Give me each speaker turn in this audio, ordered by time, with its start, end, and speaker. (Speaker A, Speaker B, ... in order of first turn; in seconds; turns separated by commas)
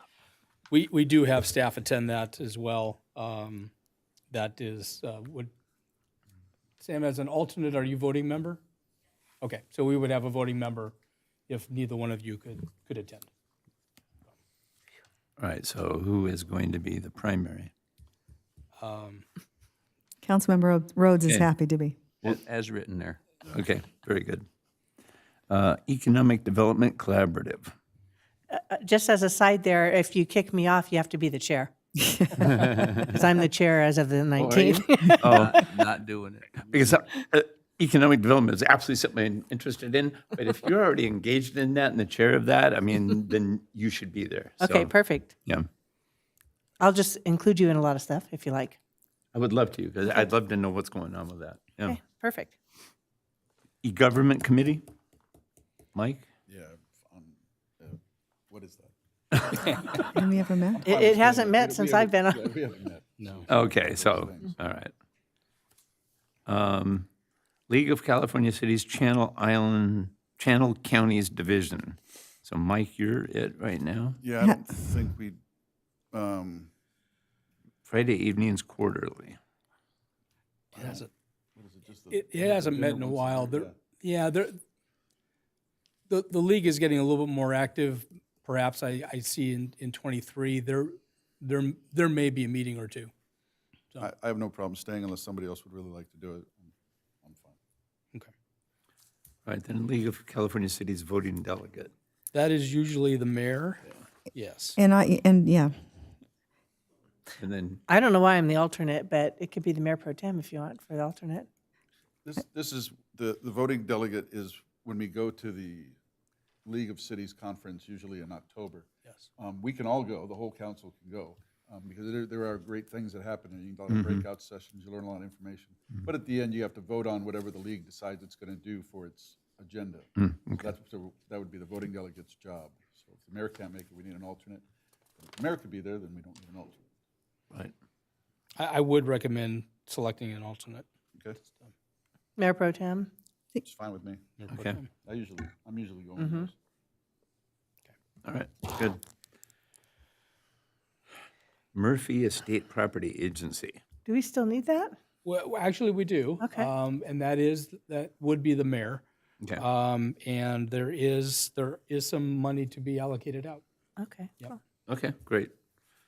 Speaker A: 0.7-3.7, Speaker A: 4.3-5.5, Speaker A: 6.8-8.6, Speaker A: 9.4-10.9, Speaker A: 11.5-13.3, Speaker B: 15.4-17.7, Speaker A: 18.8-19.2, Speaker C: 20.2-22.0, Speaker D: 22.2-23.2, Speaker B: 23.5-24.4, Speaker B: 25.5-27.7, Speaker E: 28.5-31.7, Speaker C: 32.0-32.8, Speaker E: 33.1-34.9, Speaker D: 34.4-36.7, Speaker B: 34.6-35.7, Speaker C: 35.1-35.4, Speaker B: 36.7-45.7, Speaker E: 44.6-45.3, Speaker E: 46.8-48.8, Speaker B: 49.3-52.0, Speaker E: 51.9-52.5, Speaker B: 53.8-54.8, Speaker B: 55.9-56.2, Speaker F: 56.5-58.0, Speaker F: 58.5-60.1, Speaker C: 60.1-60.9, Speaker F: 60.8-64.5, Speaker E: 60.9-62.3, Speaker B: 63.5-64.9, Speaker B: 66.5-67.1, Speaker B: 67.7-74.2, Speaker F: 74.2-75.4, Speaker F: 76.1-76.7, Speaker B: 77.8-79.4, Speaker F: 80.7-83.7, Speaker A: 80.7-81.0, Speaker A: 82.1-84.6, Speaker A: 86.1-93.1, Speaker F: 94.0-96.7, Speaker F: 97.2-97.6, Speaker B: 99.4-101.9, Speaker A: 102.3-104.8, Speaker C: 104.8-105.7, Speaker B: 107.4-107.8, Speaker E: 107.9-111.5, Speaker F: 112.2-115.9, Speaker F: 116.6-134.6, Speaker B: 123.9-124.2, Speaker B: 130.2-130.6, Speaker F: 135.2-136.9, Speaker A: 138.6-140.8, Speaker E: 142.4-143.1, Speaker F: 143.6-144.3, Speaker B: 144.5-144.8, Speaker F: 145.0-146.5, Speaker B: 148.2-149.0, Speaker B: 151.7-153.8, Speaker E: 154.1-154.9, Speaker A: 155.2-159.0, Speaker E: 156.4-156.7, Speaker A: 159.6-163.6, Speaker E: 164.0-164.3, Speaker B: 164.9-165.5